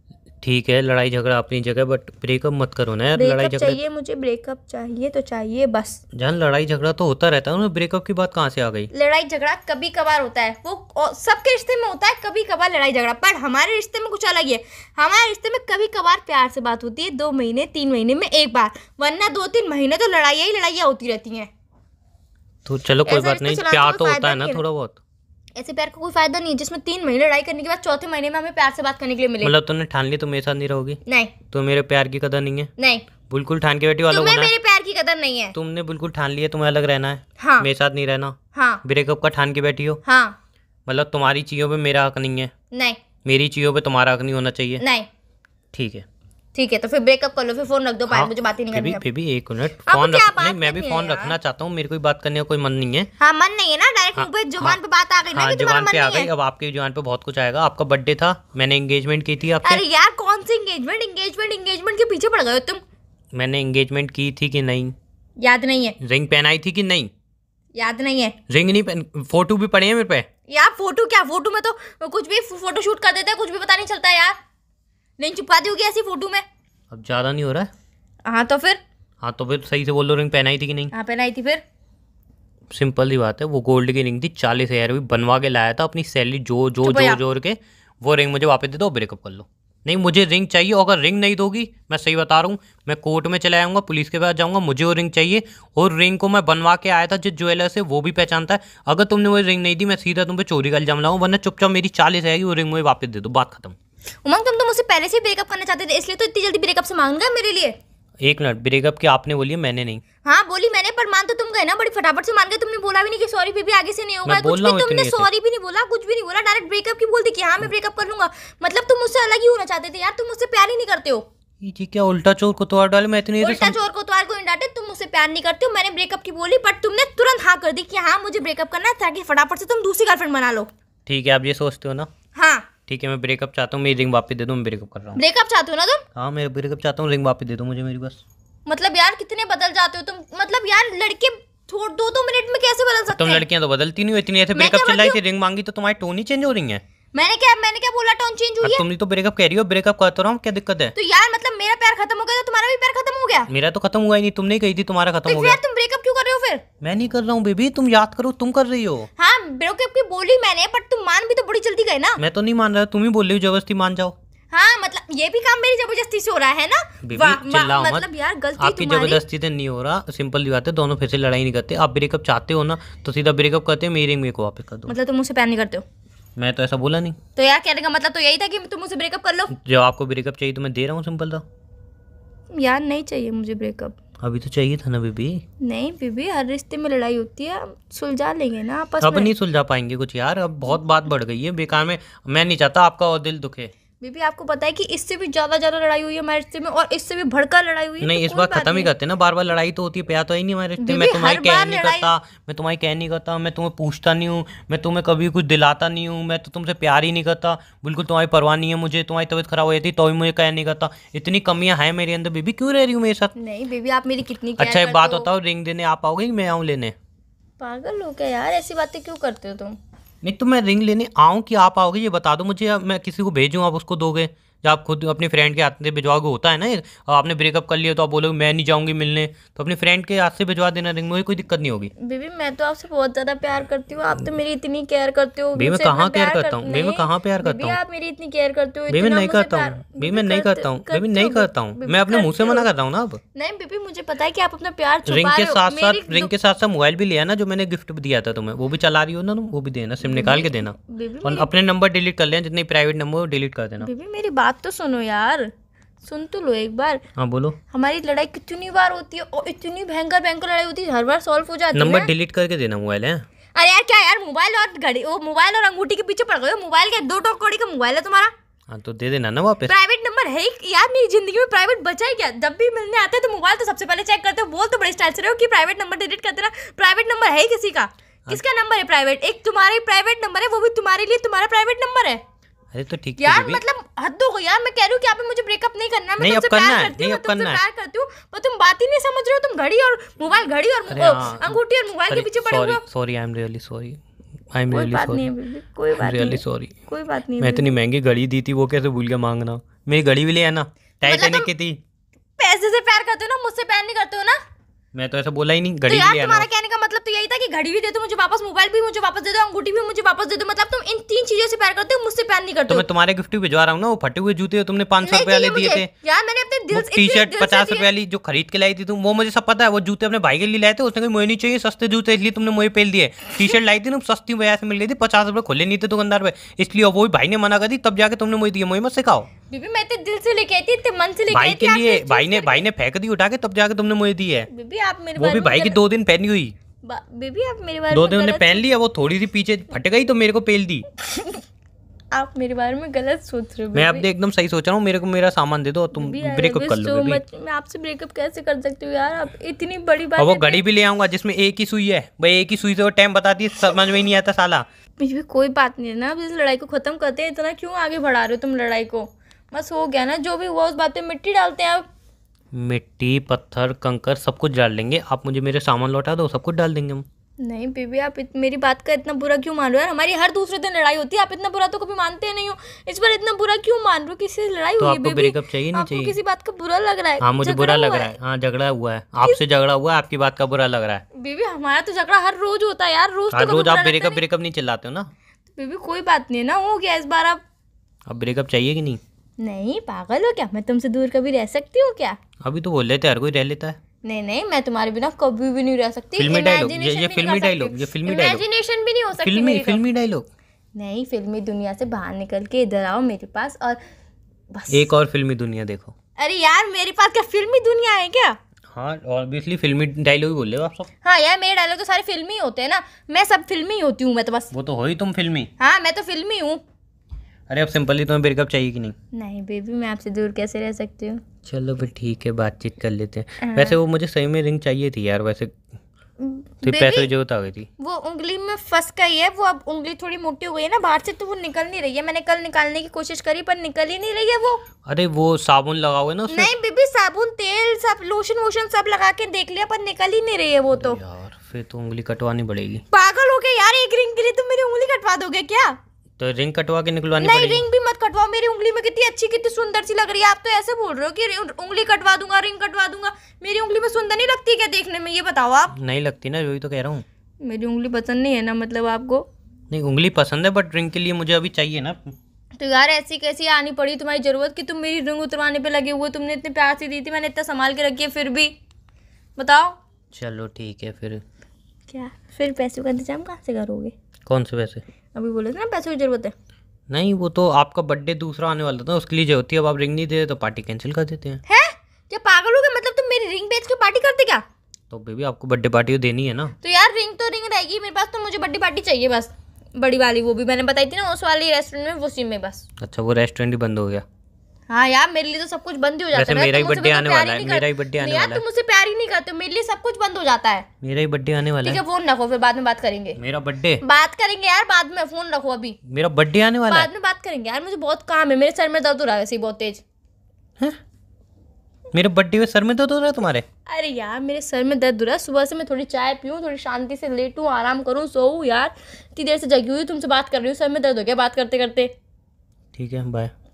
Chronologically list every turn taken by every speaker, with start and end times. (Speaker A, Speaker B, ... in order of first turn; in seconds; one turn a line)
Speaker A: 0.4-3.8
Speaker B: 3.1-6.0
Speaker A: 6.1-8.9
Speaker B: 8.9-21.5
Speaker A: 22.6-25.0
Speaker B: 23.1-24.6
Speaker B: 25.6-29.5
Speaker A: 29.4-32.7
Speaker B: 31.1-31.4
Speaker B: 32.8-33.1
Speaker A: 33.3-34.5
Speaker B: 34.1-35.5
Speaker A: 35.5-40.0
Speaker B: 37.4-37.7
Speaker B: 38.5-38.8
Speaker B: 40.0-40.4
Speaker A: 40.9-42.5
Speaker B: 42.7-43.0
Speaker A: 43.2-44.8
Speaker B: 44.8-45.1
Speaker A: 45.7-46.0
Speaker B: 46.5-49.0
Speaker A: 48.1-53.1
Speaker B: 49.8-51.4
Speaker B: 53.2-56.3
Speaker A: 54.1-54.8
Speaker A: 55.3-59.8
Speaker B: 59.6-62.8
Speaker A: 63.3-64.9
Speaker B: 65.4-66.0
Speaker A: 66.0-67.1
Speaker B: 67.7-68.3
Speaker A: 68.5-70.3
Speaker B: 70.5-74.3
Speaker B: 75.2-76.4
Speaker A: 76.9-77.7
Speaker B: 78.2-78.8
Speaker A: 79.2-80.9
Speaker B: 80.9-81.6
Speaker A: 82.7-103.8
Speaker B: 86.8-87.2
Speaker B: 104.2-107.7
Speaker A: 108.2-110.0
Speaker B: 110.2-121.2
Speaker A: 114.2-115.3
Speaker A: 121.6-123.8
Speaker B: 123.4-130.7
Speaker A: 131.1-132.1
Speaker B: 132.3-132.7
Speaker A: 132.9-135.2
Speaker B: 135.1-136.0
Speaker A: 136.1-138.2
Speaker B: 138.7-143.4
Speaker A: 143.2-146.8
Speaker B: 144.5-145.2
Speaker B: 147.1-148.8
Speaker A: 148.6-150.9
Speaker B: 150.9-153.5
Speaker A: 153.5-155.6
Speaker B: 155.2-156.6
Speaker A: 156.8-159.1
Speaker B: 159.2-162.2
Speaker A: 162.2-164.1
Speaker B: 164.5-169.2
Speaker A: 167.0-168.1
Speaker A: 168.6-174.9
Speaker B: 174.9-175.8
Speaker A: 176.4-177.2
Speaker B: 177.3-179.5
Speaker A: 179.5-181.4
Speaker B: 182.5-183.9
Speaker A: 184.2-185.4
Speaker B: 185.6-189.3
Speaker A: 189.0-193.7
Speaker B: 194.0-198.9
Speaker A: 198.0-213.3
Speaker B: 200.8-202.1
Speaker B: 213.3-215.3
Speaker A: 214.6-216.9
Speaker B: 217.6-219.8
Speaker A: 220.2-231.9
Speaker B: 232.0-242.7
Speaker A: 235.6-237.8
Speaker A: 238.9-243.2
Speaker B: 243.3-246.3
Speaker A: 245.1-253.9
Speaker B: 250.0-251.5
Speaker B: 253.8-255.5
Speaker B: 256.0-257.0
Speaker A: 257.2-257.6
Speaker B: 257.7-262.1
Speaker A: 261.7-263.2
Speaker B: 263.5-268.3
Speaker A: 268.7-269.7
Speaker B: 269.6-282.2
Speaker A: 282.7-283.6
Speaker B: 283.2-292.8
Speaker A: 286.2-287.6
Speaker A: 290.9-291.6
Speaker A: 292.1-294.0
Speaker A: 294.5-295.3
Speaker B: 294.7-297.6
Speaker A: 295.9-296.7
Speaker A: 297.4-301.8
Speaker B: 301.0-301.5
Speaker B: 302.4-304.4
Speaker A: 304.9-306.5
Speaker B: 305.9-312.9
Speaker A: 312.7-315.9
Speaker B: 315.0-317.9
Speaker A: 316.7-329.3
Speaker B: 329.5-332.6
Speaker A: 331.3-334.5
Speaker B: 334.5-335.8
Speaker A: 335.2-336.5
Speaker B: 336.8-338.7
Speaker A: 337.9-340.9
Speaker B: 341.0-341.4
Speaker B: 342.1-344.1
Speaker A: 343.7-347.2
Speaker B: 345.9-350.6
Speaker A: 350.2-354.6
Speaker B: 355.0-361.8
Speaker A: 362.5-367.0
Speaker B: 367.4-378.1
Speaker A: 374.8-376.1
Speaker A: 377.2-381.0
Speaker B: 381.1-384.2
Speaker A: 383.3-385.1
Speaker B: 385.6-387.4
Speaker A: 388.1-389.0
Speaker B: 389.4-392.2
Speaker A: 392.4-393.8
Speaker B: 394.0-399.8
Speaker A: 396.1-398.4
Speaker A: 399.2-400.3
Speaker B: 400.7-403.8
Speaker B: 404.5-404.9
Speaker A: 404.7-405.9
Speaker B: 406.2-408.4
Speaker A: 408.7-410.9
Speaker B: 411.0-414.5
Speaker A: 414.5-415.5
Speaker B: 415.6-416.6
Speaker A: 417.5-418.9
Speaker B: 419.1-421.2
Speaker A: 421.4-425.6
Speaker B: 423.4-423.8
Speaker B: 426.2-427.1
Speaker A: 426.6-427.7
Speaker B: 427.8-434.6
Speaker A: 434.8-436.5
Speaker B: 436.3-441.0
Speaker A: 440.7-442.8
Speaker B: 442.9-445.8
Speaker A: 446.2-447.6
Speaker B: 447.2-455.7
Speaker A: 455.7-457.0
Speaker B: 457.4-459.2
Speaker A: 459.7-462.1
Speaker B: 462.6-468.5
Speaker B: 469.4-469.8
Speaker A: 470.1-471.2
Speaker B: 471.9-473.9
Speaker A: 474.2-474.8
Speaker B: 475.1-476.3
Speaker A: 476.9-481.4
Speaker B: 481.4-484.4
Speaker A: 484.9-486.5
Speaker B: 486.6-492.7
Speaker A: 492.8-494.0
Speaker B: 494.7-500.6
Speaker A: 496.1-498.4
Speaker A: 500.8-501.8
Speaker B: 501.6-503.2
Speaker A: 503.1-503.8
Speaker B: 503.8-505.8
Speaker A: 505.8-506.9
Speaker B: 506.7-509.8
Speaker A: 511.9-513.5
Speaker B: 513.7-521.9
Speaker A: 522.7-523.3